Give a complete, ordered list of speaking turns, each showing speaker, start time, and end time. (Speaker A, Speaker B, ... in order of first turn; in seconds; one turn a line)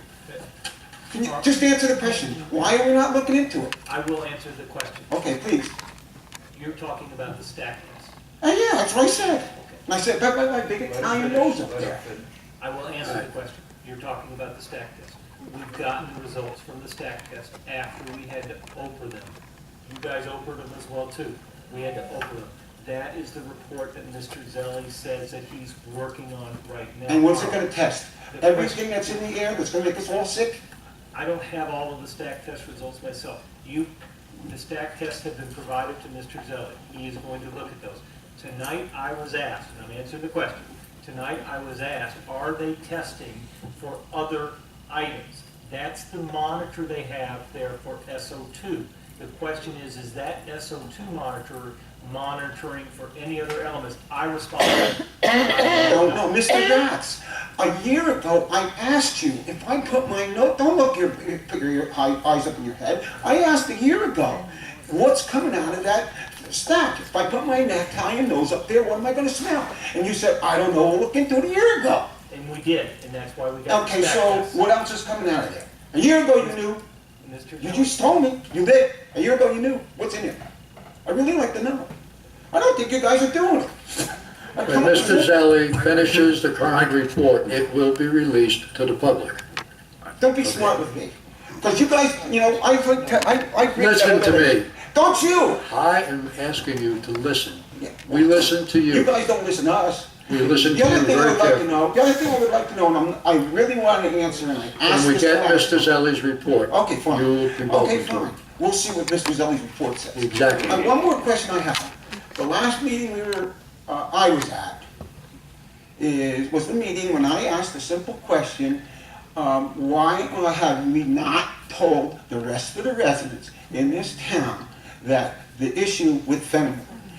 Speaker A: 1.1-3.8
Speaker B: 1.2-1.6
Speaker B: 3.9-5.2
Speaker A: 5.1-5.7
Speaker B: 6.5-8.1
Speaker A: 8.4-12.0
Speaker B: 9.5-9.8
Speaker B: 10.9-11.6
Speaker B: 12.6-19.3
Speaker B: 19.8-27.7
Speaker A: 27.1-30.6
Speaker B: 28.3-29.1
Speaker B: 31.1-33.9
Speaker B: 34.5-56.2
Speaker A: 55.8-72.1
Speaker B: 72.3-74.6
Speaker A: 73.7-76.8
Speaker B: 77.2-78.0
Speaker A: 77.6-80.4
Speaker A: 81.0-81.9
Speaker A: 82.5-85.3
Speaker C: 84.7-89.4
Speaker B: 85.9-86.2
Speaker A: 90.2-95.6
Speaker C: 90.4-90.8
Speaker C: 93.7-94.7
Speaker C: 95.6-99.1
Speaker A: 97.7-105.9
Speaker C: 100.3-101.7
Speaker C: 104.8-108.3
Speaker A: 106.7-114.8
Speaker C: 110.1-110.9
Speaker A: 116.0-118.8
Speaker A: 119.3-126.8